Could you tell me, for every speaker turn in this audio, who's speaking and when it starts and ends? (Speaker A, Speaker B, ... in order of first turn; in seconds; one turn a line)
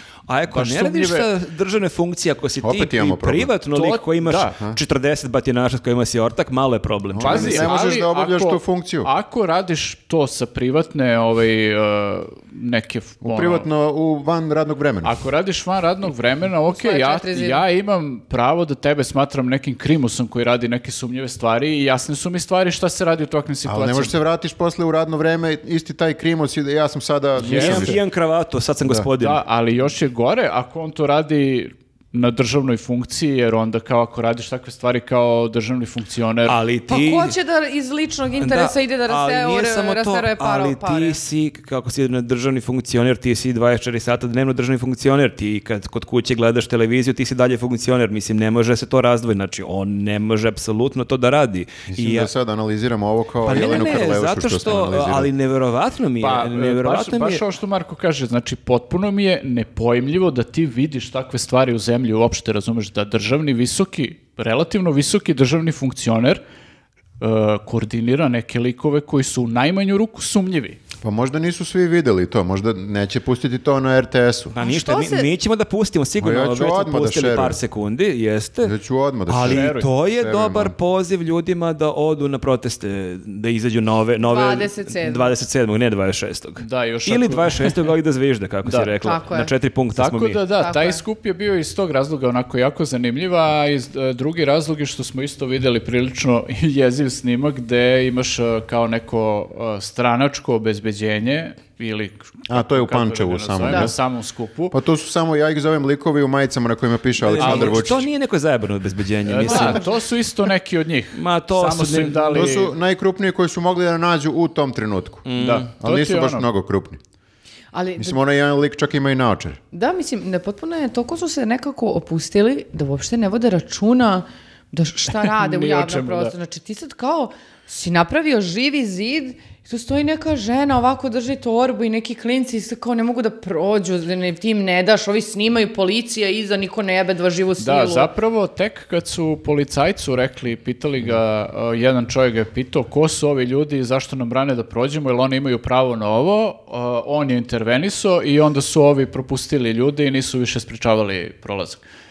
Speaker A: 0.3-7.7
Speaker B: 0.5-1.3
Speaker C: 2.6-3.5
Speaker B: 3.7-4.6
Speaker C: 7.1-9.1
Speaker B: 7.2-13.7
Speaker C: 13.2-15.1
Speaker B: 15.0-24.1
Speaker D: 16.7-17.6
Speaker C: 23.7-28.0
Speaker B: 27.4-28.0
Speaker A: 27.4-29.4
Speaker B: 29.2-36.6
Speaker A: 36.5-37.4
Speaker D: 36.9-41.2
Speaker A: 38.4-52.3
Speaker C: 51.9-55.3
Speaker A: 53.5-57.4
Speaker B: 56.2-66.4
Speaker B: 67.2-70.8
Speaker C: 71.0-74.5
Speaker A: 74.5-78.7
Speaker D: 74.6-75.3
Speaker C: 76.2-77.6
Speaker C: 78.6-80.7
Speaker A: 79.3-90.4
Speaker B: 79.4-79.9
Speaker D: 84.2-85.3
Speaker B: 86.6-87.9
Speaker B: 88.7-88.9
Speaker D: 89.0-89.5
Speaker B: 90.0-104.8
Speaker D: 90.6-91.0
Speaker C: 102.5-104.0
Speaker D: 103.7-103.9
Speaker C: 104.7-108.1
Speaker A: 107.2-109.9
Speaker B: 107.4-107.9
Speaker B: 109.3-112.7
Speaker D: 109.5-109.8
Speaker A: 111.1-112.4
Speaker C: 112.3-115.3
Speaker A: 115.3-115.7
Speaker B: 115.4-116.5
Speaker C: 115.8-117.0
Speaker D: 117.7-118.2
Speaker C: 118.0-119.6
Speaker D: 119.7-138.1
Speaker B: 125.2-126.3
Speaker B: 137.6-151.8